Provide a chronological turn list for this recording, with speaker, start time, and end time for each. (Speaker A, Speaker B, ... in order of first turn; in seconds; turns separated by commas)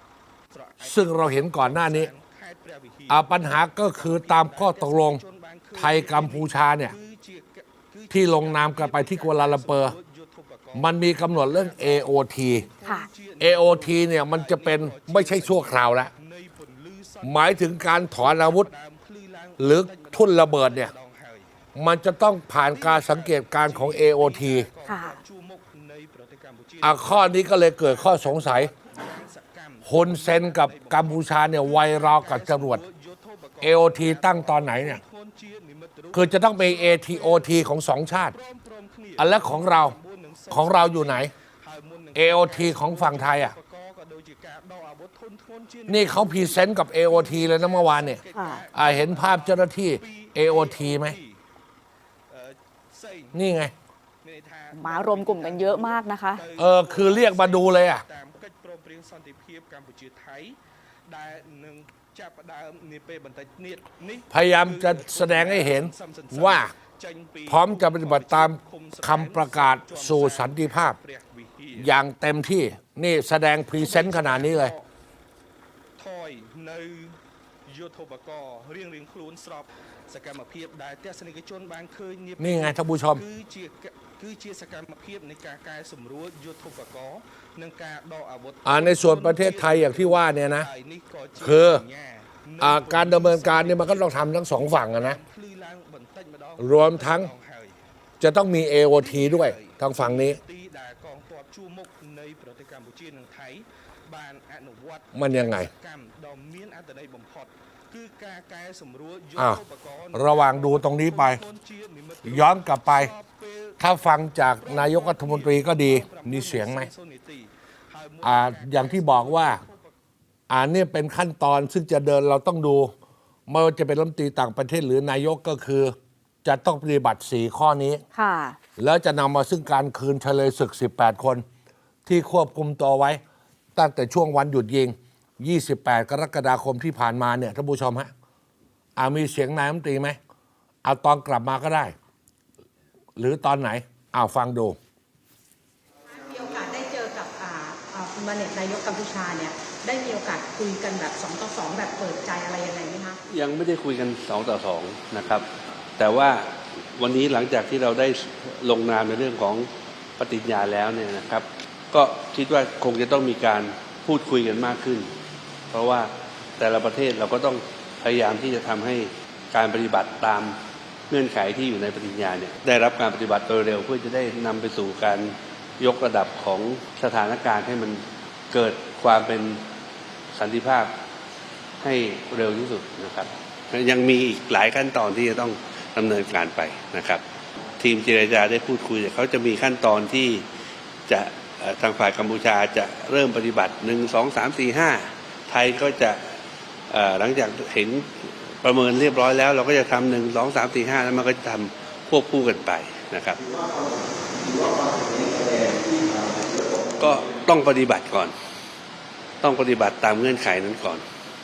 Speaker A: 0.6-12.1, Speaker B: 0.8-2.1, Speaker B: 3.1-5.2, Speaker B: 5.7-6.9, Speaker B: 8.1-9.9, Speaker B: 10.7-12.7, Speaker A: 12.7-21.5, Speaker B: 13.4-16.1, Speaker B: 17.2-18.7, Speaker B: 19.6-20.9, Speaker B: 21.7-24.7, Speaker A: 22.7-37.5, Speaker C: 24.9-25.2, Speaker B: 26.8-28.7, Speaker B: 29.8-32.8, Speaker B: 33.6-35.0, Speaker B: 36.1-38.3, Speaker A: 38.3-51.3, Speaker B: 39.2-40.0, Speaker B: 40.5-41.3, Speaker B: 42.1-43.5, Speaker B: 45.9-48.2, Speaker C: 48.3-48.6, Speaker B: 48.7-51.2, Speaker A: 53.0-53.3, Speaker B: 53.3-53.7, Speaker A: 54.2-60.6, Speaker C: 54.7-56.5, Speaker B: 56.5-58.0, Speaker A: 61.1-71.8, Speaker B: 64.3-66.7, Speaker B: 67.5-71.0, Speaker B: 71.8-74.7, Speaker A: 73.8-74.8, Speaker A: 76.0-77.2, Speaker A: 77.7-94.1, Speaker B: 82.4-83.2, Speaker B: 88.6-90.7, Speaker B: 91.4-91.8, Speaker B: 92.6-95.2, Speaker A: 94.7-97.7, Speaker B: 96.6-97.3, Speaker B: 98.2-100.4, Speaker A: 99.0-112.5, Speaker B: 105.1-105.7, Speaker B: 109.3-111.4, Speaker B: 112.2-113.1, Speaker A: 113.0-113.7, Speaker B: 113.8-116.9, Speaker A: 114.6-119.8, Speaker B: 118.2-119.6, Speaker B: 120.5-122.9, Speaker B: 123.5-128.0, Speaker C: 128.1-128.6, Speaker B: 128.8-131.4, Speaker B: 132.1-133.2, Speaker B: 133.7-138.1, Speaker B: 138.9-140.2, Speaker B: 140.8-141.9, Speaker B: 143.2-144.8, Speaker D: 146.1-153.2, Speaker E: 153.3-155.4, Speaker E: 156.0-165.1, Speaker E: 165.7-170.6, Speaker E: 171.1-179.6, Speaker E: 180.3-180.9, Speaker E: 181.8-187.2, Speaker E: 187.8-190.4, Speaker E: 191.1-196.2, Speaker E: 196.9-203.4, Speaker A: 204.6-205.8, Speaker E: 207.0-208.3, Speaker E: 209.4-211.0